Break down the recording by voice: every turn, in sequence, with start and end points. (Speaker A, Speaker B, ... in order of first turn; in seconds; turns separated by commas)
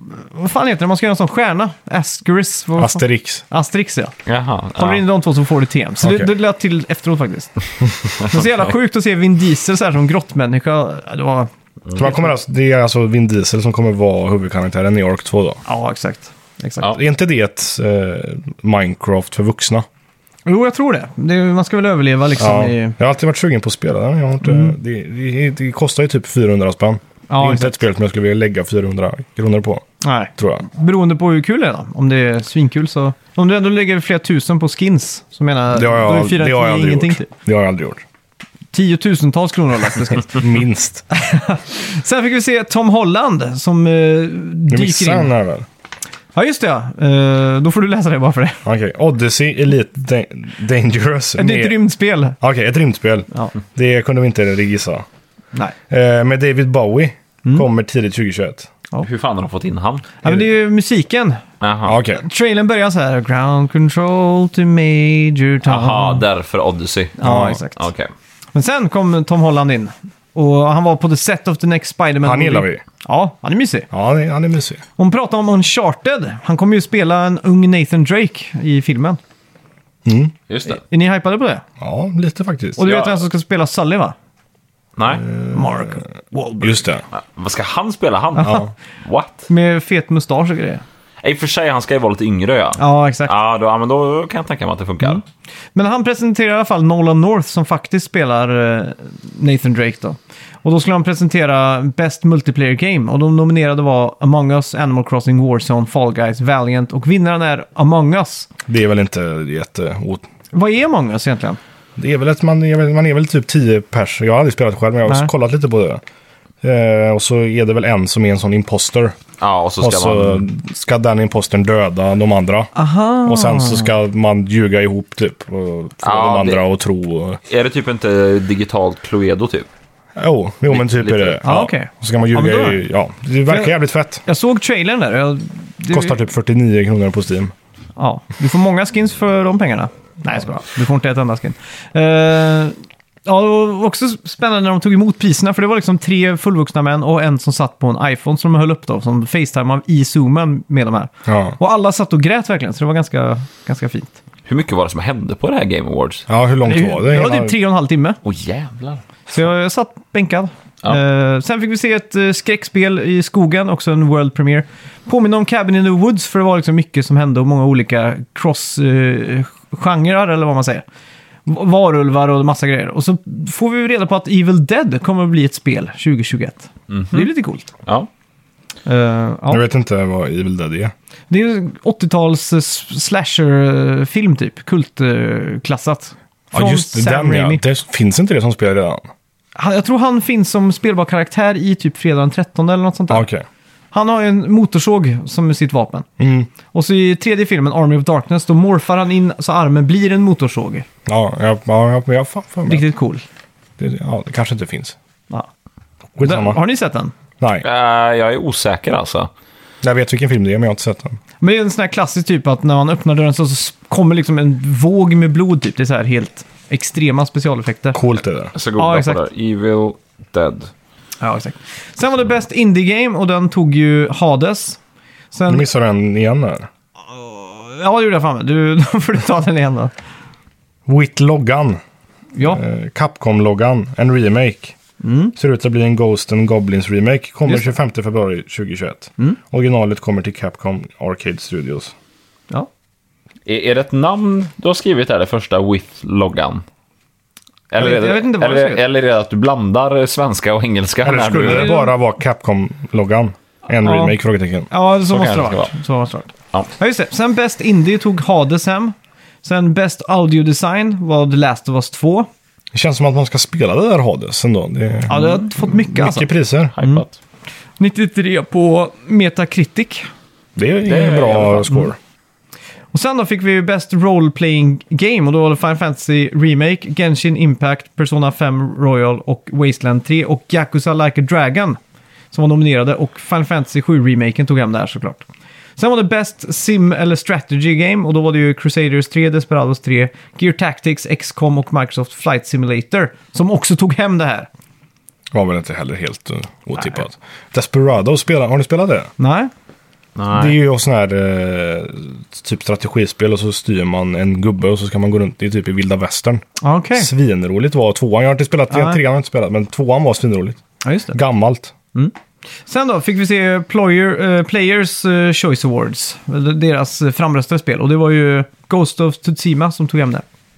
Speaker A: 0.1-4.2, Speaker B: 2.8-3.5, Speaker C: 4.3-5.0, Speaker A: 4.8-7.5, Speaker B: 6.0-6.3, Speaker A: 8.1-12.3, Speaker B: 12.0-15.6, Speaker A: 15.7-16.9, Speaker B: 16.9-19.9, Speaker A: 20.5-22.9, Speaker B: 22.4-29.8, Speaker A: 24.4-24.7, Speaker A: 27.3-27.8, Speaker A: 30.0-37.3, Speaker B: 30.4-30.6, Speaker B: 35.7-38.0, Speaker A: 38.7-40.5, Speaker B: 40.3-41.1, Speaker A: 41.1-45.3, Speaker B: 44.7-45.7, Speaker A: 46.4-48.6, Speaker B: 48.6-51.8, Speaker A: 51.4-52.4, Speaker B: 52.4-55.0, Speaker B: 55.9-58.7, Speaker C: 59.0-60.1, Speaker A: 60.2-61.4, Speaker C: 61.6-62.0, Speaker B: 61.9-62.2, Speaker A: 62.1-66.2, Speaker C: 65.6-68.1, Speaker A: 67.2-67.9, Speaker B: 67.2-67.6, Speaker A: 68.5-73.9, Speaker B: 72.2-72.8, Speaker B: 73.9-74.8, Speaker A: 75.0-79.2, Speaker B: 80.0-80.3, Speaker C: 80.5-80.8, Speaker A: 80.7-81.6, Speaker B: 81.8-82.9, Speaker A: 82.8-84.2, Speaker C: 82.8-83.1, Speaker C: 85.0-85.2, Speaker B: 85.1-86.0, Speaker A: 85.5-86.8, Speaker B: 86.6-87.0, Speaker C: 87.1-89.5, Speaker A: 88.4-88.7, Speaker A: 89.5-90.8, Speaker C: 91.2-95.2, Speaker A: 92.8-93.3, Speaker A: 95.8-108.5, Speaker B: 108.7-110.2, Speaker A: 110.5-111.6, Speaker B: 112.0-116.0, Speaker B: 116.6-119.2, Speaker C: 119.4-120.5, Speaker B: 119.8-122.7, Speaker A: 122.8-123.9, Speaker B: 123.2-127.4, Speaker C: 126.0-126.6, Speaker C: 127.5-129.7, Speaker B: 130.2-134.2, Speaker C: 130.7-131.4, Speaker A: 131.4-132.8, Speaker A: 134.2-136.2, Speaker B: 135.9-137.5, Speaker A: 138.0-154.2, Speaker B: 151.3-151.6, Speaker C: 154.5-156.3, Speaker B: 156.3-157.6, Speaker A: 156.7-158.2, Speaker C: 158.2-159.0, Speaker A: 159.3-170.8, Speaker A: 171.5-177.7, Speaker C: 176.9-177.3, Speaker A: 178.9-179.6, Speaker B: 179.5-180.9, Speaker A: 181.3-187.6, Speaker B: 186.5-189.1, Speaker A: 189.6-193.3, Speaker B: 193.1-193.4, Speaker A: 193.9-196.1, Speaker B: 196.2-196.5, Speaker A: 196.7-200.9, Speaker B: 201.1-202.8, Speaker A: 202.7-203.2, Speaker B: 203.8-205.0, Speaker B: 206.2-206.6, Speaker A: 206.2-207.1, Speaker B: 207.4-207.7, Speaker C: 207.6-209.3, Speaker B: 209.8-211.2, Speaker A: 211.4-218.0, Speaker B: 217.9-218.5, Speaker C: 218.5-220.7, Speaker A: 218.8-219.2, Speaker A: 221.2-224.8, Speaker A: 225.3-225.7, Speaker B: 225.5-226.7, Speaker A: 227.1-229.9, Speaker B: 230.9-231.8, Speaker A: 232.3-232.6, Speaker B: 232.4-234.8, Speaker A: 235.0-235.3, Speaker B: 235.4-241.9, Speaker C: 243.5-246.6, Speaker C: 247.7-251.7, Speaker A: 247.8-248.8, Speaker B: 251.0-254.7, Speaker A: 251.4-251.9, Speaker A: 253.8-254.2, Speaker A: 254.7-262.3, Speaker C: 255.1-255.7, Speaker B: 262.7-266.8, Speaker A: 265.1-267.1, Speaker C: 266.8-267.1, Speaker A: 267.8-270.1, Speaker B: 270.6-272.0, Speaker C: 270.9-271.8, Speaker A: 272.9-281.8, Speaker A: 282.3-285.2, Speaker A: 285.8-294.5, Speaker B: 295.3-299.1, Speaker A: 299.2-299.5, Speaker C: 300.2-300.6, Speaker B: 300.3-306.4, Speaker A: 306.6-307.1, Speaker B: 307.0-310.6, Speaker A: 308.7-309.0, Speaker A: 310.8-311.2, Speaker B: 311.1-311.7, Speaker A: 312.7-320.2